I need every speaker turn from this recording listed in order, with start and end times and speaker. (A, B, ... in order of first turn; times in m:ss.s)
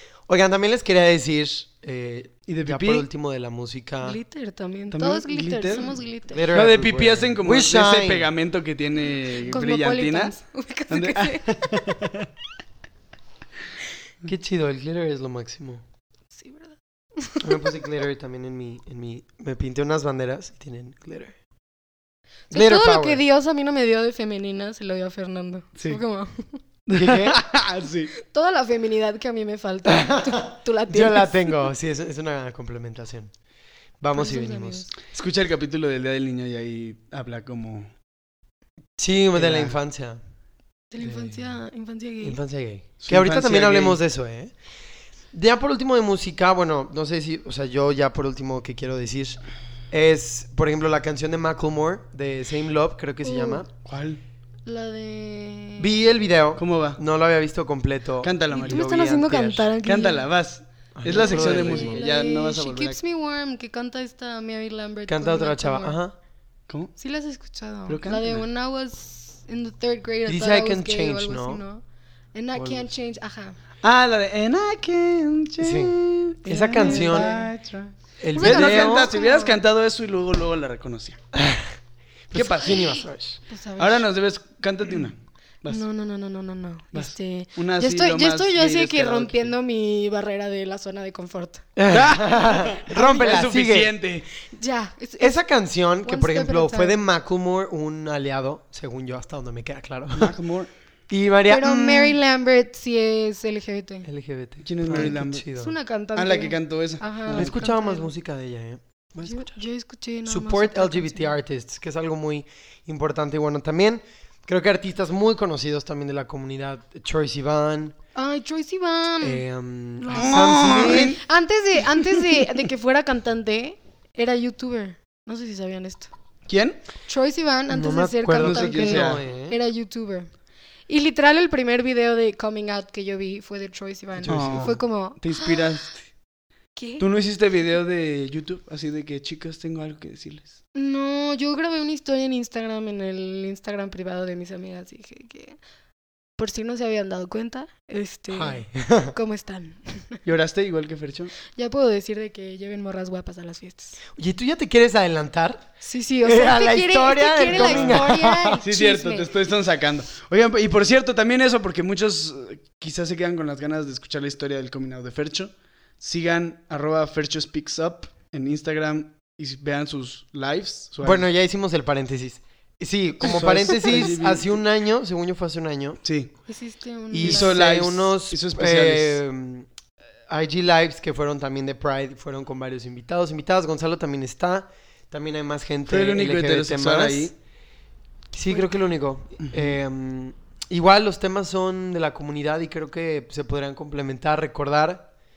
0:00.3-0:04.2 A
0:02.5-0:03.0 B
0:04.0-0:06.5 C
0:04.9-0:05.9 B
0:06.3-0:08.3 A
0:06.5-0:10.3 B
0:09.4-0:11.8 C
0:10.9-0:12.3 B
0:14.2-0:15.8 A
0:16.3-0:17.7 C
0:17.4-0:21.4 A
0:22.5-0:23.2 A
0:22.5-0:26.6 C
0:26.9-0:28.1 B
0:26.9-0:27.4 A
0:28.2-0:31.6 C
0:29.9-0:33.3 A
0:34.0-0:34.8 A
0:34.1-0:34.9 C
0:35.1-0:37.9 B
0:39.0-0:40.2 A
0:39.4-0:39.8 B
0:40.9-0:42.4 C
0:41.0-0:41.5 A
0:42.2-0:44.5 A
0:43.0-0:44.0 B
0:45.3-0:53.7 A
0:53.2-0:53.7 C
0:53.8-0:54.2 B
0:54.7-0:56.0 C
0:55.8-0:59.7 A
0:56.6-0:57.0 B
0:58.2-0:58.9 B
0:58.5-1:00.3 C
0:59.8-1:03.0 B
1:01.0-1:02.0 A
1:01.1-1:06.0 C
1:05.1-1:06.2 A
1:07.0-1:11.8 C
1:07.9-1:08.4 B
1:10.3-1:11.6 A
1:12.3-1:13.6 C
1:12.6-1:12.9 A
1:13.8-1:21.2 B
1:15.6-1:17.4 A
1:16.7-1:17.5 C
1:18.2-1:19.1 A
1:18.3-1:19.6 C
1:21.3-1:21.7 A
1:22.3-1:23.4 A
1:22.3-1:22.8 B
1:23.5-1:24.1 C
1:23.8-1:25.8 B
1:25.7-1:31.7 C
1:26.9-1:29.5 B
1:31.8-1:33.9 A
1:31.9-1:34.3 B
1:34.5-1:35.4 C
1:35.2-1:40.4 A
1:36.0-1:37.0 C
1:40.2-1:40.7 B
1:41.1-1:42.2 A
1:41.5-1:44.1 C
1:44.0-1:45.8 A
1:44.6-1:45.4 B
1:44.9-1:48.1 C
1:46.2-1:47.6 B
1:47.3-1:49.6 A
1:49.2-1:51.4 C
1:50.3-1:58.0 A
1:58.2-1:59.4 C
1:59.2-2:01.2 A
2:00.0-2:06.1 C
2:00.1-2:01.2 B
2:06.5-2:06.8 B
2:07.1-2:10.3 C
2:07.7-2:09.6 A
2:08.4-2:09.2 B
2:10.9-2:15.8 C
2:14.2-2:14.8 A
2:14.3-2:16.0 B
2:16.8-2:17.1 C
2:17.0-2:20.5 B
2:20.8-2:25.6 C
2:26.4-2:30.2 C
2:28.3-2:29.1 A
2:30.2-2:31.3 B
2:31.5-2:34.0 C
2:34.2-2:35.7 A
2:35.8-2:39.3 C
2:36.2-2:38.6 A
2:37.5-2:38.0 B
2:38.6-2:51.3 B
2:51.0-2:56.0 A
2:53.2-2:54.5 B
2:56.0-2:56.3 B
2:56.5-2:57.6 C
2:57.1-2:59.7 A
2:57.2-2:59.2 B
3:00.3-3:07.3 A
3:05.9-3:07.3 B
3:08.3-3:15.1 A
3:09.4-3:09.7 B